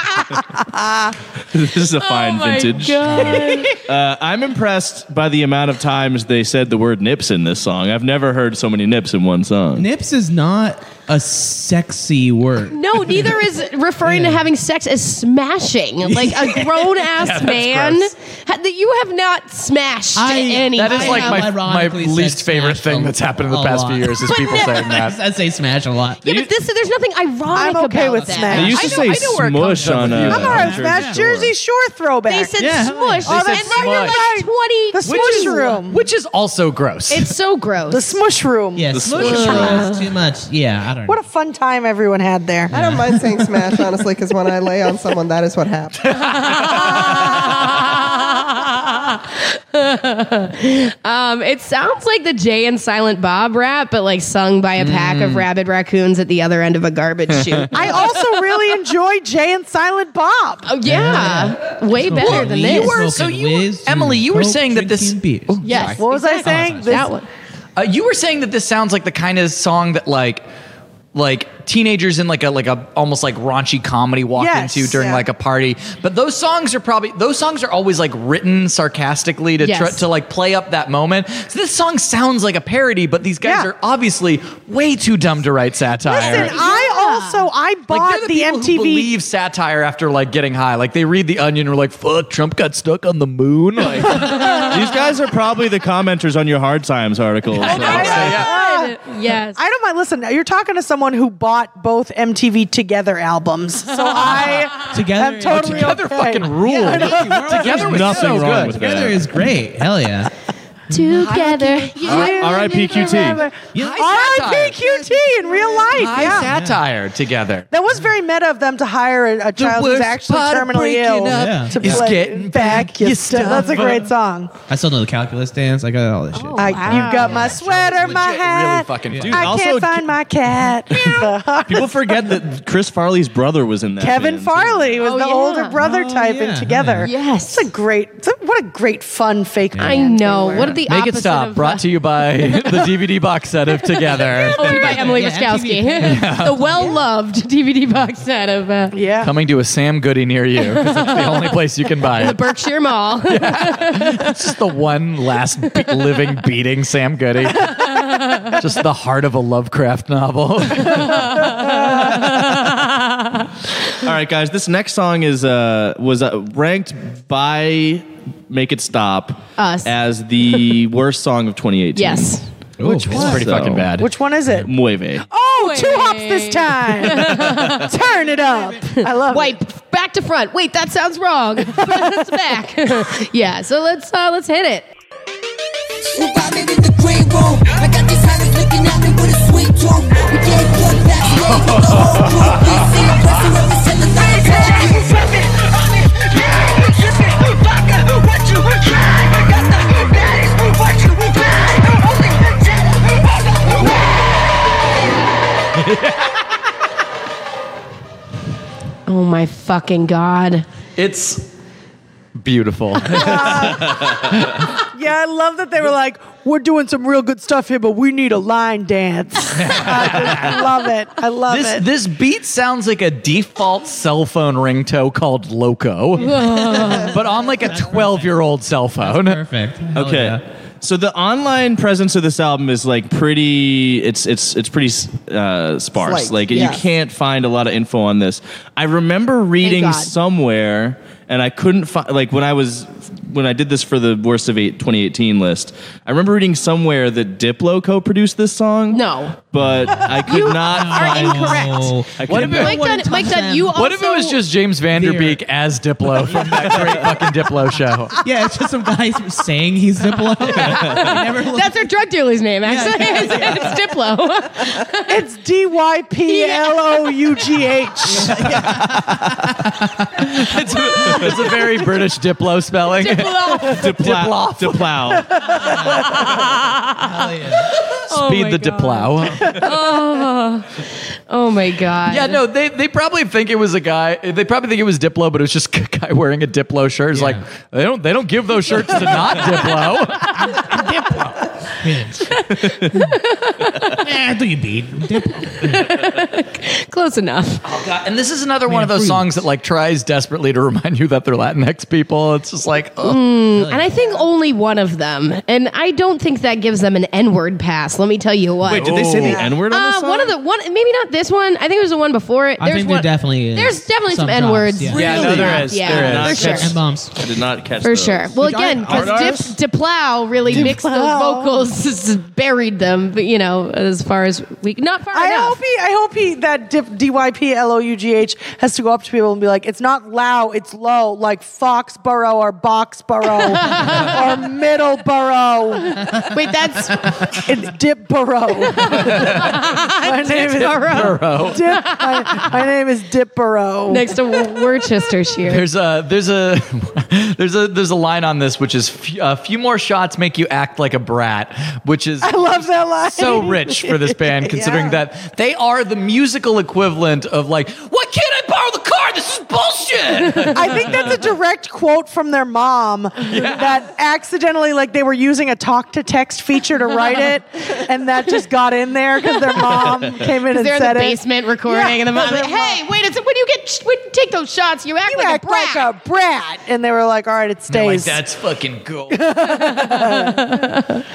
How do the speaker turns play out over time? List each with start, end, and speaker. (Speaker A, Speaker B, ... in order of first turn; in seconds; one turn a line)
Speaker A: 1.5-9.9
Speaker B: 2.0-3.8
Speaker C: 9.7-13.4
Speaker B: 12.7-21.5
Speaker C: 14.0-14.5
Speaker C: 16.0-16.6
Speaker D: 16.8-18.1
Speaker C: 20.1-26.2
Speaker D: 20.8-25.1
Speaker B: 24.3-24.9
Speaker B: 26.2-29.1
Speaker A: 26.2-26.5
Speaker E: 27.5-29.0
Speaker C: 28.2-28.6
Speaker A: 28.5-31.5
Speaker D: 28.7-30.8
Speaker C: 29.7-31.2
Speaker E: 30.3-32.6
Speaker B: 32.3-35.7
Speaker C: 32.6-33.6
Speaker E: 33.2-36.0
Speaker D: 33.2-34.3
Speaker D: 35.0-37.3
Speaker B: 37.1-38.2
Speaker E: 37.9-39.8
Speaker C: 38.8-41.2
Speaker A: 38.9-39.9
Speaker B: 39.2-40.1
Speaker E: 41.0-42.7
Speaker C: 42.7-43.2
Speaker F: 42.7-46.1
Speaker D: 46.1-47.6
Speaker B: 46.4-58.0
Speaker D: 54.8-55.5
Speaker E: 57.7-60.7
Speaker B: 60.6-63.1
Speaker C: 60.8-65.8
Speaker D: 62.1-66.0
Speaker B: 65.6-67.2
Speaker E: 65.7-67.1
Speaker C: 66.4-67.0
Speaker D: 67.8-70.4
Speaker D: 71.1-86.5
Speaker E: 74.3-75.2
Speaker B: 79.6-80.0
Speaker E: 83.4-83.7
Speaker E: 86.0-89.1
Speaker B: 86.1-87.4
Speaker D: 87.9-94.7
Speaker A: 94.0-98.4
Speaker D: 97.5-98.5
Speaker E: 97.6-107.6
Speaker B: 97.6-99.6
Speaker C: 104.8-105.9
Speaker D: 105.4-108.9
Speaker C: 106.7-110.3
Speaker A: 107.5-109.3
Speaker B: 110.9-113.4
Speaker E: 111.2-116.5
Speaker D: 111.2-111.5
Speaker D: 112.0-112.4
Speaker A: 112.1-113.4
Speaker C: 113.7-114.0
Speaker D: 113.7-115.0
Speaker D: 115.8-117.7
Speaker C: 116.3-116.8
Speaker E: 117.7-124.5
Speaker D: 119.5-124.1
Speaker C: 121.3-122.0
Speaker C: 124.7-128.1
Speaker B: 126.3-127.6
Speaker E: 126.5-132.1
Speaker D: 127.1-129.5
Speaker C: 129.1-129.4
Speaker A: 129.2-130.2
Speaker A: 130.9-135.0
Speaker E: 134.0-140.8
Speaker B: 135.0-135.8
Speaker C: 135.8-137.1
Speaker B: 137.0-137.7
Speaker C: 139.7-140.0
Speaker B: 139.8-141.8
Speaker D: 140.8-144.9
Speaker B: 142.4-142.7
Speaker B: 144.0-148.9
Speaker C: 144.4-147.0
Speaker D: 146.0-146.6
Speaker E: 148.9-149.3
Speaker D: 149.2-152.5
Speaker B: 150.6-151.5
Speaker B: 152.1-154.4
Speaker D: 153.3-161.6
Speaker B: 155.6-156.1
Speaker B: 157.6-158.6
Speaker B: 160.8-163.5
Speaker A: 164.0-172.3
Speaker B: 169.6-169.9
Speaker B: 171.9-172.4
Speaker C: 172.8-173.4
Speaker D: 172.8-174.1
Speaker A: 173.0-173.9
Speaker E: 174.0-174.7
Speaker A: 174.6-175.2
Speaker E: 175.3-179.6
Speaker B: 175.5-177.9
Speaker B: 178.8-184.9
Speaker E: 181.8-182.2
Speaker G: 186.1-204.0
Speaker D: 191.6-192.8
Speaker D: 205.8-206.4
Speaker B: 209.1-210.6
Speaker D: 211.0-211.4
Speaker D: 212.3-214.6
Speaker E: 213.1-214.0
Speaker E: 214.9-221.9
Speaker D: 219.6-220.7
Speaker D: 221.5-229.4
Speaker B: 226.2-227.1
Speaker C: 226.4-228.2
Speaker C: 229.0-230.4
Speaker A: 229.9-252.8
Speaker F: 236.0-236.8
Speaker B: 239.6-240.1
Speaker B: 248.9-249.4
Speaker C: 249.6-253.8
Speaker B: 250.2-254.4
Speaker D: 252.2-252.8
Speaker D: 253.7-258.2
Speaker C: 254.9-255.4
Speaker C: 256.1-257.1
Speaker C: 258.2-261.9
Speaker A: 260.5-261.2
Speaker B: 260.6-265.2
Speaker C: 262.6-263.8
Speaker E: 265.1-268.3
Speaker B: 266.2-266.8
Speaker C: 268.1-269.5
Speaker D: 268.5-275.2
Speaker A: 271.1-271.4
Speaker B: 273.0-273.9
Speaker A: 273.6-275.3
Speaker C: 275.6-276.4
Speaker D: 275.9-276.9
Speaker C: 277.0-277.7
Speaker B: 277.9-282.4
Speaker D: 277.9-279.6
Speaker D: 282.1-290.8
Speaker C: 287.1-287.4
Speaker C: 290.3-292.3
Speaker B: 292.3-294.0
Speaker A: 292.5-293.1
Speaker C: 294.0-295.9
Speaker B: 295.4-297.6
Speaker D: 297.6-303.2
Speaker C: 298.7-299.4
Speaker B: 303.0-316.7
Speaker C: 303.5-304.0
Speaker A: 308.6-310.4
Speaker F: 309.2-309.6
Speaker C: 312.6-317.1
Speaker D: 314.9-316.6
Speaker A: 314.9-319.5
Speaker B: 317.8-325.6
Speaker C: 318.4-319.5
Speaker C: 320.5-320.8
Speaker E: 320.5-321.7
Speaker E: 325.1-336.0
Speaker B: 333.6-334.1
Speaker B: 335.9-337.4
Speaker E: 337.4-344.2
Speaker B: 338.6-342.5
Speaker D: 339.0-339.6
Speaker D: 340.4-341.7
Speaker B: 343.9-345.6
Speaker D: 345.4-361.2
Speaker E: 352.2-355.0
Speaker E: 360.5-372.8
Speaker D: 363.2-363.8
Speaker B: 370.5-375.9
Speaker E: 375.1-378.2
Speaker D: 377.7-379.3
Speaker E: 379.1-380.4
Speaker B: 379.5-381.0